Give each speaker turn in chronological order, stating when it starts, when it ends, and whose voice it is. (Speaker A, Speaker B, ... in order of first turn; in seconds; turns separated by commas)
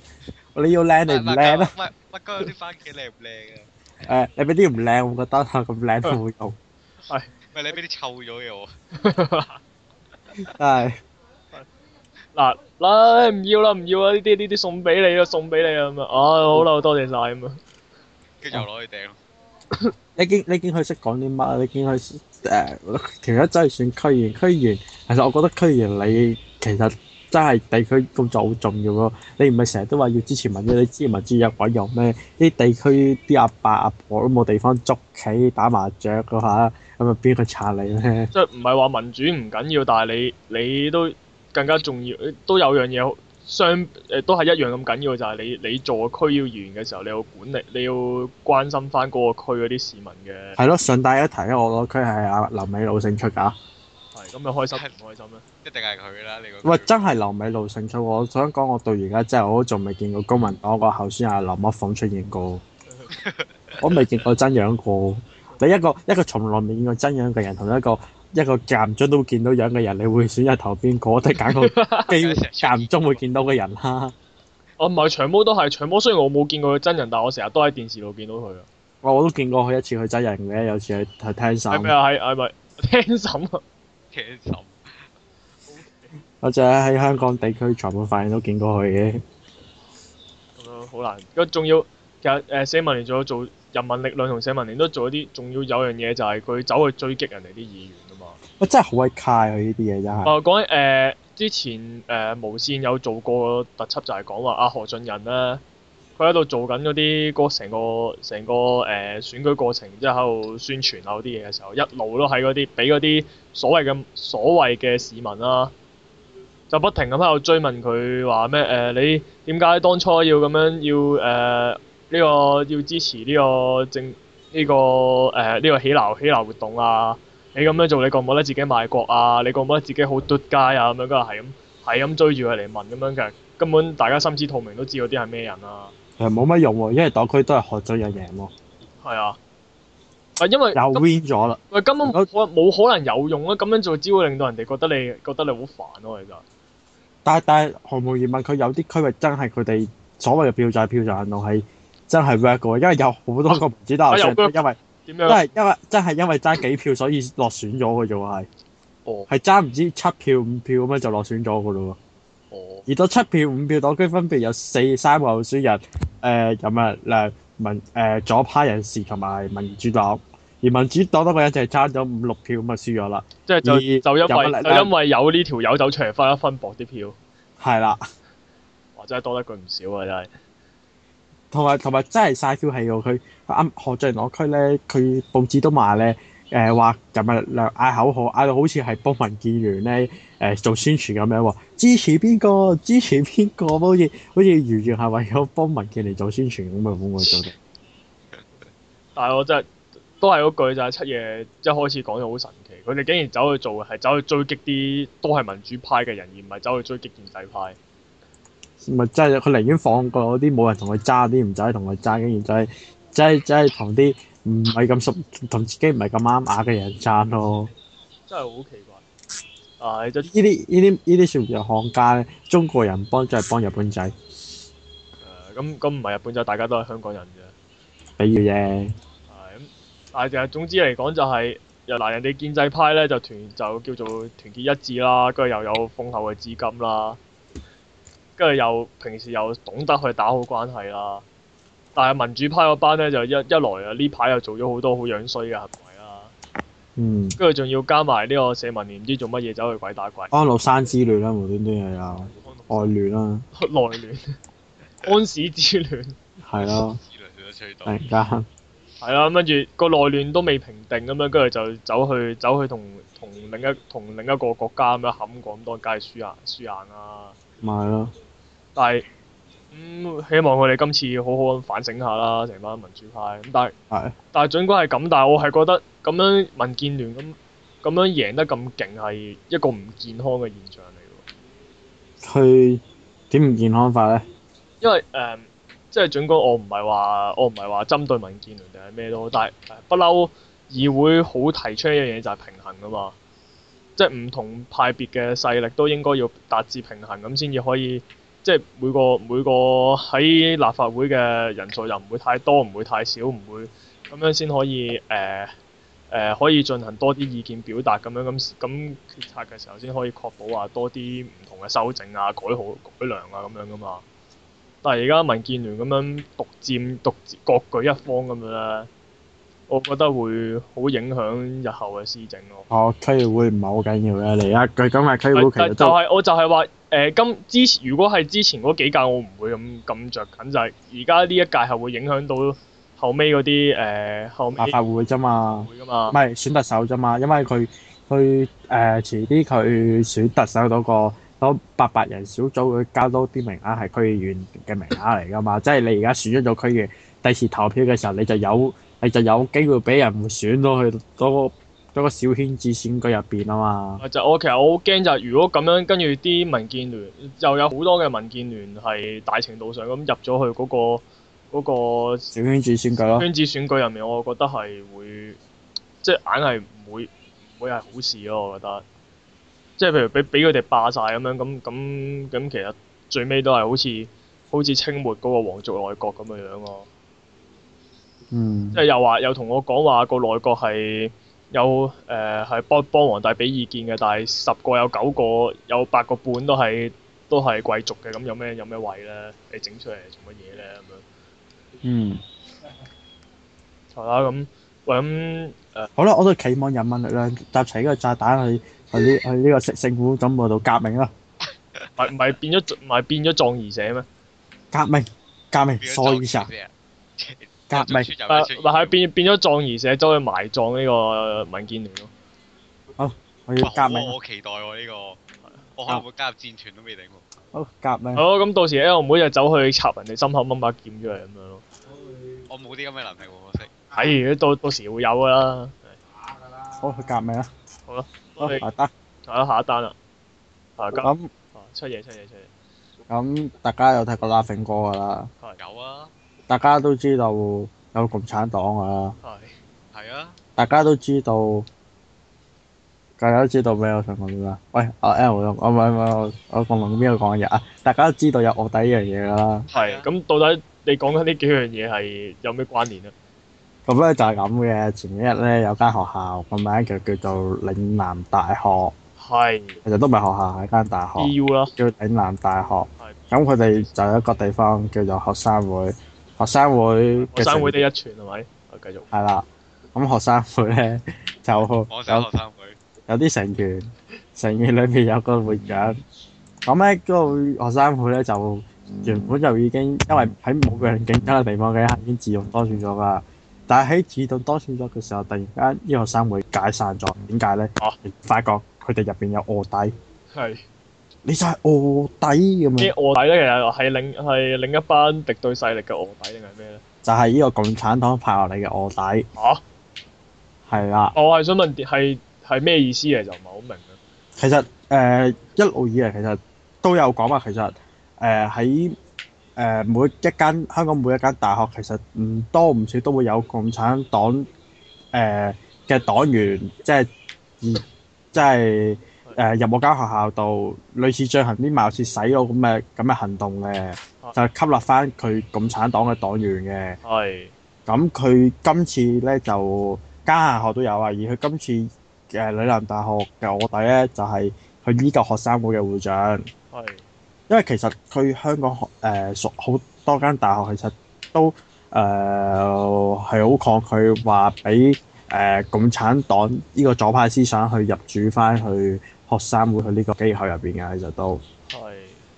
Speaker A: 0.5-1.7, Speaker B: 1.1-3.7, Speaker A: 4.0-6.6, Speaker B: 7.5-8.7, Speaker C: 8.9-9.6, Speaker A: 10.4-11.0, Speaker C: 12.3-17.6, Speaker B: 18.4-19.2, Speaker A: 20.2-38.3, Speaker C: 38.3-50.6, Speaker A: 50.6-53.5, Speaker C: 54.1-55.4, Speaker B: 55.6-57.0, Speaker A: 56.6-62.6, Speaker B: 63.1-64.1, Speaker A: 63.8-74.1, Speaker C: 71.4-72.1, Speaker B: 72.1-73.2, Speaker C: 74.8-78.7, Speaker A: 79.0-81.9, Speaker C: 81.7-83.6, Speaker B: 84.1-85.0, Speaker C: 85.7-86.1, Speaker A: 86.4-89.2, Speaker C: 90.6-98.4, Speaker A: 98.6-100.3, Speaker C: 100.2-105.6, Speaker C: 106.2-115.7, Speaker C: 116.7-135.9, Speaker A: 136.2-138.5, Speaker C: 139.0-139.4, Speaker C: 140.4-141.0, Speaker A: 140.7-142.3, Speaker C: 141.7-146.4, Speaker A: 147.2-158.5, Speaker C: 154.1-155.5, Speaker A: 159.3-162.0, Speaker C: 162.5-162.8, Speaker A: 162.9-174.9, Speaker C: 173.5-177.2, Speaker A: 177.6-178.0, Speaker C: 178.9-180.3, Speaker A: 181.5-197.5, Speaker C: 199.2-199.7, Speaker C: 200.2-207.8, Speaker A: 208.8-217.7, Speaker C: 218.3-219.0, Speaker C: 219.8-220.3, Speaker A: 220.2-224.1, Speaker C: 225.2-227.5, Speaker A: 228.2-228.9, Speaker C: 229.3-237.2, Speaker C: 238.4-241.2, Speaker C: 241.9-246.3, Speaker A: 247.0-247.4, Speaker C: 247.4-250.3, Speaker A: 250.3-253.4, Speaker C: 252.3-252.9, Speaker C: 253.5-254.3, Speaker C: 255.0-256.2, Speaker A: 256.4-257.0, Speaker B: 256.5-258.0, Speaker A: 257.8-258.5, Speaker C: 259.0-267.4, Speaker A: 267.6-268.1, Speaker C: 268.8-269.0, Speaker C: 269.7-273.7, Speaker A: 273.9-274.1, Speaker C: 274.3-281.2, Speaker A: 282.2-284.2, Speaker C: 284.8-293.1, Speaker C: 293.9-305.5, Speaker C: 306.1-314.0, Speaker C: 314.8-318.9, Speaker C: 319.7-322.7, Speaker A: 322.7-326.0, Speaker C: 325.3-334.8, Speaker A: 334.6-354.0, Speaker C: 335.6-336.2, Speaker C: 354.0-362.3, Speaker A: 362.3-363.3, Speaker C: 363.1-365.4, Speaker C: 366.0-368.8, Speaker C: 369.8-376.9, Speaker A: 378.3-378.8, Speaker C: 378.7-391.0, Speaker A: 391.8-392.2, Speaker C: 393.9-395.9, Speaker A: 395.9-401.1, Speaker C: 402.0-404.1, Speaker A: 404.7-406.5, Speaker B: 405.8-409.0, Speaker A: 407.7-408.1, Speaker C: 408.3-412.1, Speaker A: 413.0-414.1, Speaker B: 413.6-415.2, Speaker B: 415.8-417.2, Speaker A: 417.5-418.2, Speaker C: 418.1-421.6, Speaker B: 422.5-423.7, Speaker C: 423.9-426.0, Speaker A: 426.8-427.5, Speaker C: 427.9-428.6, Speaker A: 428.4-428.9, Speaker C: 429.2-429.9, Speaker C: 430.8-432.5, Speaker A: 431.0-431.3, Speaker A: 433.1-435.3, Speaker B: 435.6-436.1, Speaker A: 436.5-439.1, Speaker C: 439.2-439.5, Speaker B: 439.9-440.4, Speaker A: 440.6-441.7, Speaker A: 443.2-449.7, Speaker B: 449.7-450.1, Speaker C: 449.7-453.1, Speaker A: 453.9-458.9, Speaker C: 459.2-459.8, Speaker A: 459.8-467.8, Speaker C: 461.2-461.7, Speaker C: 463.0-463.3, Speaker C: 467.3-469.1, Speaker A: 469.1-472.3, Speaker B: 471.9-472.8, Speaker A: 473.1-476.0, Speaker A: 476.6-489.9, Speaker C: 490.3-490.6, Speaker A: 491.2-492.9, Speaker C: 492.8-496.8, Speaker A: 497.0-499.3, Speaker C: 499.3-499.6, Speaker A: 500.7-501.1, Speaker C: 501.1-504.0, Speaker A: 504.4-508.9, Speaker A: 509.6-514.5, Speaker A: 515.1-517.1, Speaker A: 517.6-527.0, Speaker C: 527.0-527.5, Speaker A: 527.9-536.5, Speaker C: 536.7-537.0, Speaker A: 537.5-551.4, Speaker C: 551.7-552.2